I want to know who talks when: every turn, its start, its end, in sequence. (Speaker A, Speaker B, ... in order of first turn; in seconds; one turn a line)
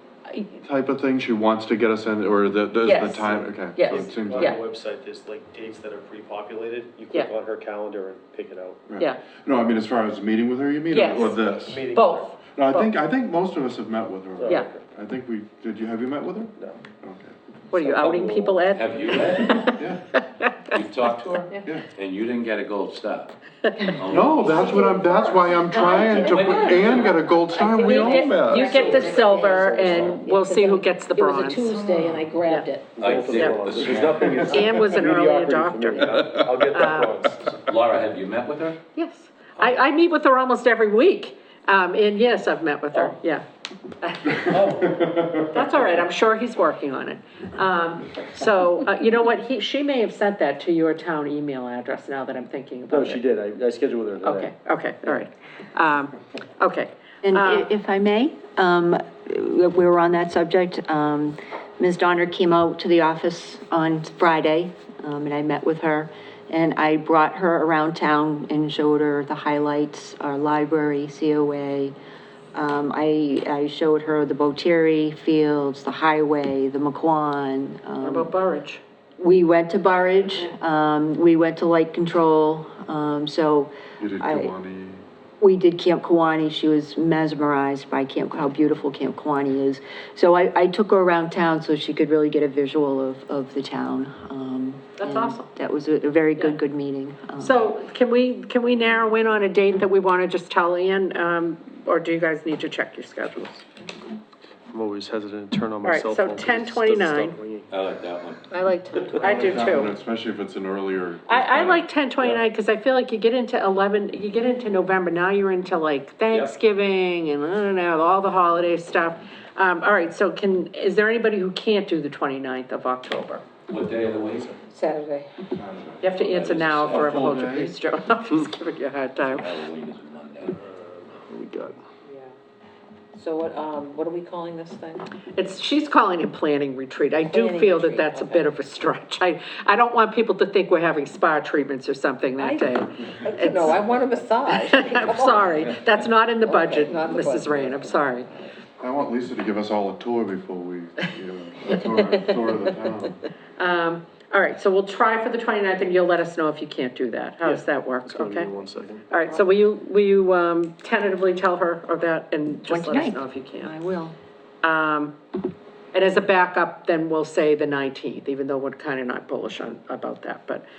Speaker A: 0.6-4.5
Speaker B: 2.8-4.6
Speaker C: 3.3-8.8
Speaker A: 8.9-11.8
Speaker B: 10.9-12.9
Speaker C: 11.4-12.3
Speaker A: 12.4-17.4
Speaker C: 14.4-14.8
Speaker C: 16.6-16.9
Speaker B: 17.7-20.8
Speaker C: 17.7-18.6
Speaker D: 18.7-19.9
Speaker A: 19.8-20.0
Speaker D: 20.7-23.3
Speaker D: 23.9-25.0
Speaker A: 24.1-28.7
Speaker E: 24.5-33.0
Speaker D: 26.1-27.2
Speaker B: 27.9-32.7
Speaker C: 28.7-30.2
Speaker C: 33.0-37.5
Speaker D: 33.0-34.5
Speaker B: 33.3-37.3
Speaker A: 36.0-36.4
Speaker D: 37.6-38.8
Speaker B: 38.9-43.4
Speaker B: 44.0-44.8
Speaker D: 44.5-45.0
Speaker A: 44.9-45.5
Speaker B: 45.3-53.2
Speaker C: 52.9-54.5
Speaker B: 54.2-57.7
Speaker F: 57.2-71.9
Speaker F: 72.5-78.3
Speaker B: 78.0-78.8
Speaker F: 79.2-84.5
Speaker A: 84.0-85.0
Speaker F: 85.4-97.7
Speaker B: 95.0-95.5
Speaker B: 97.4-103.6
Speaker C: 104.7-107.7
Speaker B: 105.8-107.3
Speaker D: 107.7-109.2
Speaker E: 108.5-109.2
Speaker B: 109.2-109.9
Speaker A: 109.2-111.8
Speaker B: 111.3-123.4
Speaker D: 116.3-116.5
Speaker D: 123.7-124.5
Speaker E: 124.6-125.4
Speaker A: 125.6-126.0
Speaker B: 126.0-129.5
Speaker D: 126.1-127.2
Speaker A: 126.9-127.7
Speaker D: 129.2-130.6
Speaker C: 130.8-131.7
Speaker E: 132.0-132.3
Speaker E: 133.2-135.0
Speaker B: 135.3-143.8
Speaker E: 137.2-138.5
Speaker E: 142.4-145.7
Speaker B: 144.5-148.3
Speaker E: 146.4-147.9
Speaker A: 148.8-153.1
Speaker E: 151.9-152.7
Speaker B: 153.6-158.5
Speaker C: 157.4-159.0
Speaker B: 159.1-163.7
Speaker F: 162.7-164.2
Speaker B: 164.6-165.2
Speaker B: 165.9-170.6